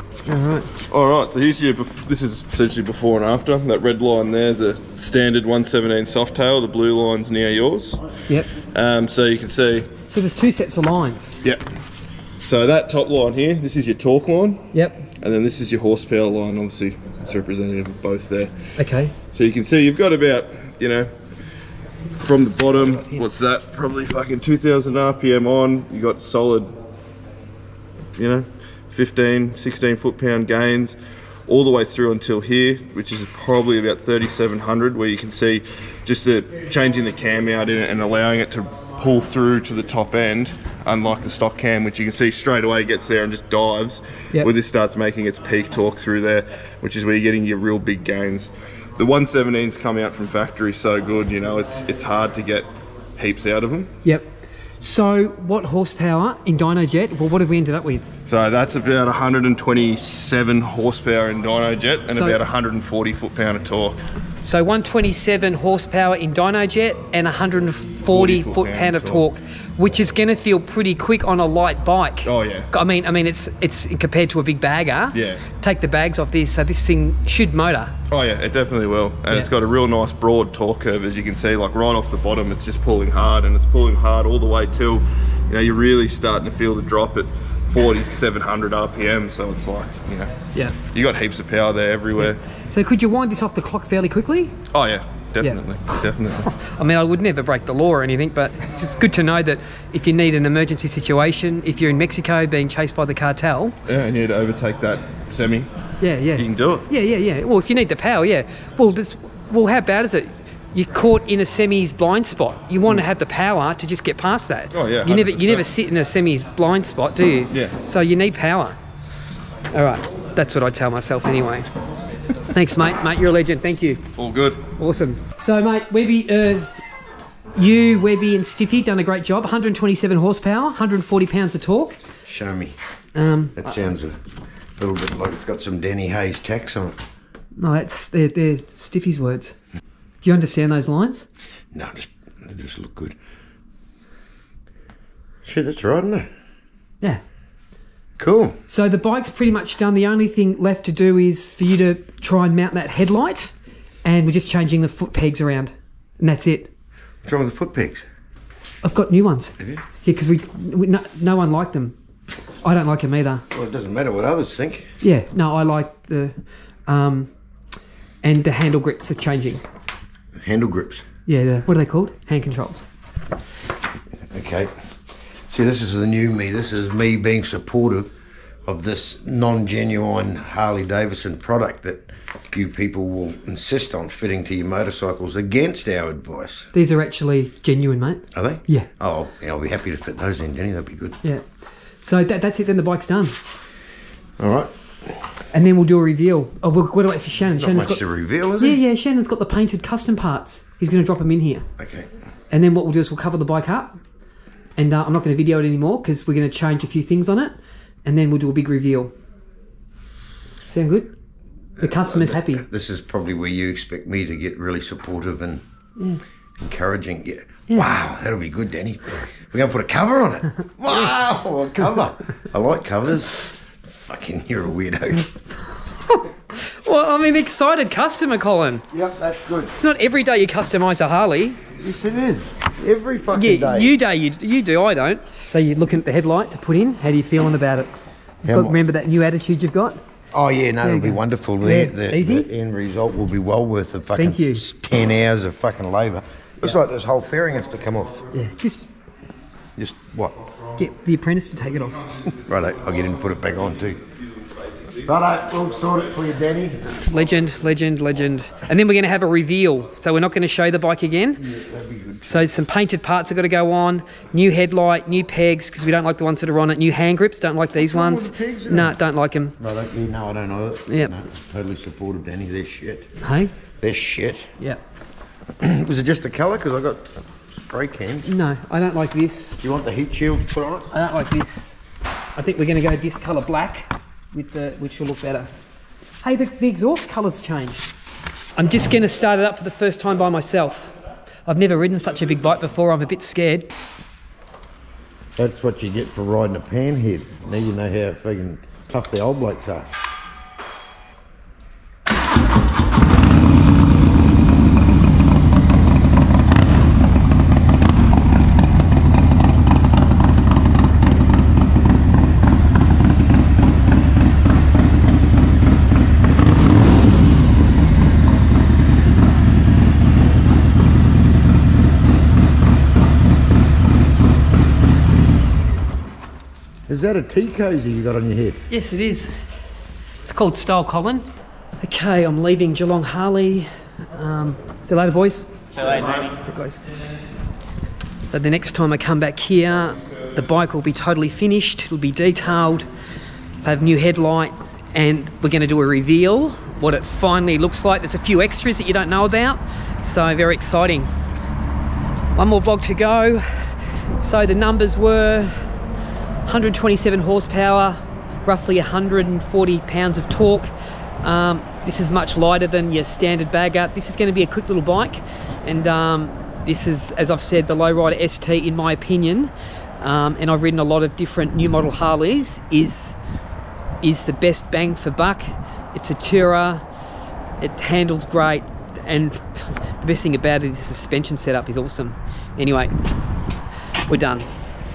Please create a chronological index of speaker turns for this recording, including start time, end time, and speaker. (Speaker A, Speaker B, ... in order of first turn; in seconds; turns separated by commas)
Speaker A: 0.3-0.7, Speaker B: 0.9-8.0, Speaker B: 8.7-9.9, Speaker A: 10.1-11.4, Speaker B: 12.4-14.7, Speaker A: 14.7-15.1, Speaker B: 15.2-18.5, Speaker A: 18.8-19.1, Speaker B: 19.3-21.1, Speaker B: 22.2-26.7, Speaker B: 28.2-31.0, Speaker B: 31.5-53.9, Speaker A: 54.8-58.1, Speaker B: 58.3-64.0, Speaker A: 62.1-62.4, Speaker A: 64.4-77.9, Speaker B: 68.1-69.3, Speaker B: 72.2-72.7, Speaker B: 75.1-75.5, Speaker B: 78.1-90.3, Speaker B: 90.9-92.4, Speaker A: 92.2-94.6, Speaker B: 94.7-96.5, Speaker A: 95.4-103.8, Speaker B: 103.9-105.7, Speaker A: 106.0-118.8, Speaker B: 106.4-106.9, Speaker B: 114.7-115.7, Speaker A: 119.7-121.7, Speaker A: 122.5-124.0, Speaker B: 124.2-124.7, Speaker A: 124.8-126.7, Speaker A: 127.5-132.0, Speaker C: 132.3-132.8, Speaker A: 133.2-133.7, Speaker C: 133.6-134.2, Speaker C: 134.8-137.0, Speaker A: 137.6-139.6, Speaker A: 140.2-141.3, Speaker C: 141.7-143.2, Speaker C: 145.4-146.3, Speaker C: 148.2-148.6, Speaker A: 148.7-153.5, Speaker A: 154.0-156.7, Speaker C: 157.2-158.1, Speaker A: 158.8-161.9, Speaker A: 162.6-163.4, Speaker C: 163.5-164.9, Speaker A: 165.0-167.3, Speaker A: 168.2-169.6, Speaker C: 170.4-171.1, Speaker A: 171.3-172.8, Speaker C: 174.3-174.7, Speaker C: 175.5-178.1, Speaker C: 178.7-186.7, Speaker A: 186.7-188.9, Speaker C: 188.3-191.2, Speaker A: 192.0-193.4, Speaker C: 194.4-194.7, Speaker A: 195.5-198.1, Speaker C: 197.6-198.8, Speaker A: 198.6-201.7, Speaker C: 201.8-202.1, Speaker A: 202.5-204.0, Speaker A: 204.8-209.1, Speaker A: 210.6-211.1, Speaker C: 211.8-215.6, Speaker A: 211.8-212.7, Speaker C: 216.6-225.3, Speaker A: 226.1-228.9, Speaker C: 228.9-229.7, Speaker A: 229.7-231.6, Speaker C: 231.8-234.0, Speaker A: 233.3-237.9, Speaker A: 238.4-240.0, Speaker C: 238.5-238.8, Speaker C: 240.3-248.3, Speaker A: 240.8-242.5, Speaker A: 244.2-244.7, Speaker A: 248.3-248.9, Speaker C: 249.8-250.4, Speaker A: 250.8-252.3, Speaker C: 252.3-254.0, Speaker C: 255.0-256.9, Speaker A: 257.1-261.4, Speaker C: 261.4-262.5, Speaker A: 262.2-269.6, Speaker C: 267.8-269.0, Speaker C: 269.6-273.1, Speaker A: 270.9-271.1, Speaker A: 273.2-273.5, Speaker C: 273.8-274.5, Speaker C: 275.6-278.3, Speaker A: 278.2-279.6, Speaker C: 279.6-280.9, Speaker A: 280.9-281.8, Speaker A: 282.4-285.5, Speaker A: 286.2-287.9, Speaker A: 288.6-290.9, Speaker A: 291.5-293.7, Speaker C: 295.4-299.9, Speaker C: 326.9-328.6, Speaker A: 328.7-329.3, Speaker A: 330.2-331.3, Speaker A: 331.8-336.8, Speaker A: 338.2-342.9, Speaker A: 343.6-351.1, Speaker A: 352.3-355.5, Speaker A: 356.4-360.7, Speaker A: 361.2-373.2, Speaker A: 374.0-376.9, Speaker A: 377.6-382.9, Speaker A: 384.1-384.5